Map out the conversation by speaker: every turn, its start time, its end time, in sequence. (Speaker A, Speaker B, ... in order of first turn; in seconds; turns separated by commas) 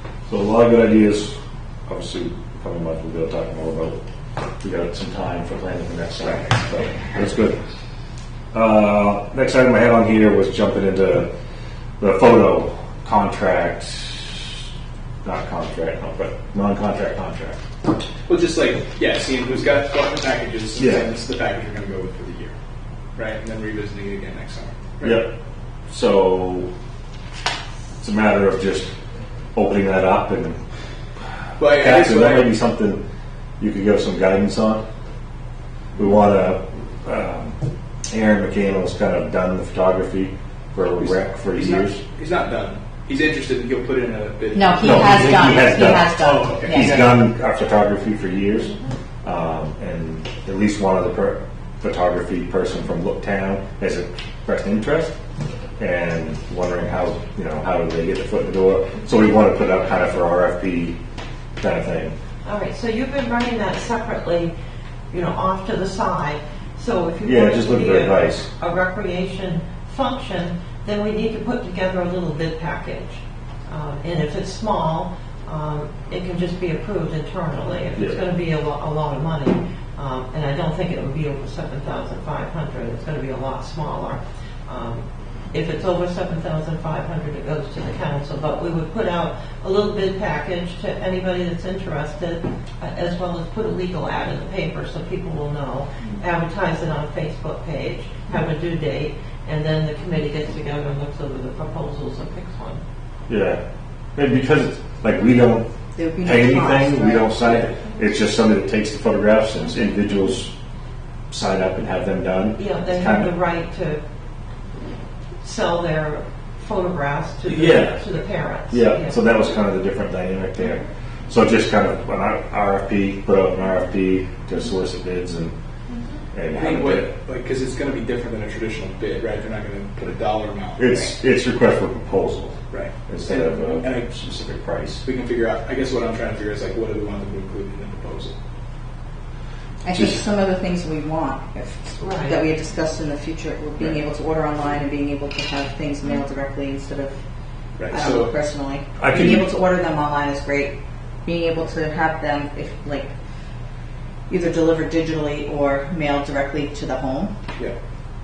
Speaker A: 0.3-1.4, Speaker A: 1.9-4.0, Speaker A: 4.6-7.6, Speaker B: 6.3-6.5, Speaker A: 8.5-11.3, Speaker A: 12.0-14.5, Speaker A: 15.2-17.6, Speaker B: 18.3-22.5, Speaker A: 20.8-21.1, Speaker B: 23.2-25.2, Speaker A: 25.0-25.3, Speaker A: 25.9-26.7, Speaker A: 28.0-28.9, Speaker A: 29.6-30.6, Speaker B: 31.6-32.5, Speaker A: 31.7-33.0, Speaker A: 33.6-34.9, Speaker A: 36.0-37.6, Speaker A: 38.1-42.0, Speaker B: 41.0-47.2, Speaker C: 44.5-47.1, Speaker A: 44.8-48.7, Speaker A: 49.2-55.1, Speaker A: 55.8-61.0, Speaker A: 61.6-62.1, Speaker D: 62.4-64.5, Speaker D: 65.1-102.8, Speaker A: 67.2-68.5, Speaker A: 78.0-78.2, Speaker A: 103.3-103.6, Speaker A: 104.2-105.7, Speaker C: 106.0-107.3, Speaker A: 106.2-110.5, Speaker B: 107.5-107.7, Speaker A: 111.3-113.4, Speaker D: 112.5-114.0, Speaker D: 115.4-119.5, Speaker A: 117.5-118.0, Speaker A: 118.7-125.5, Speaker D: 125.9-126.2, Speaker A: 126.3-127.1, Speaker B: 126.5-130.9, Speaker A: 130.8-135.1, Speaker B: 132.7-134.1, Speaker B: 135.0-138.3, Speaker C: 139.8-147.2, Speaker A: 139.9-140.2, Speaker D: 142.0-142.5, Speaker B: 147.8-148.3, Speaker C: 147.9-153.1, Speaker A: 149.0-149.5, Speaker C: 154.3-157.3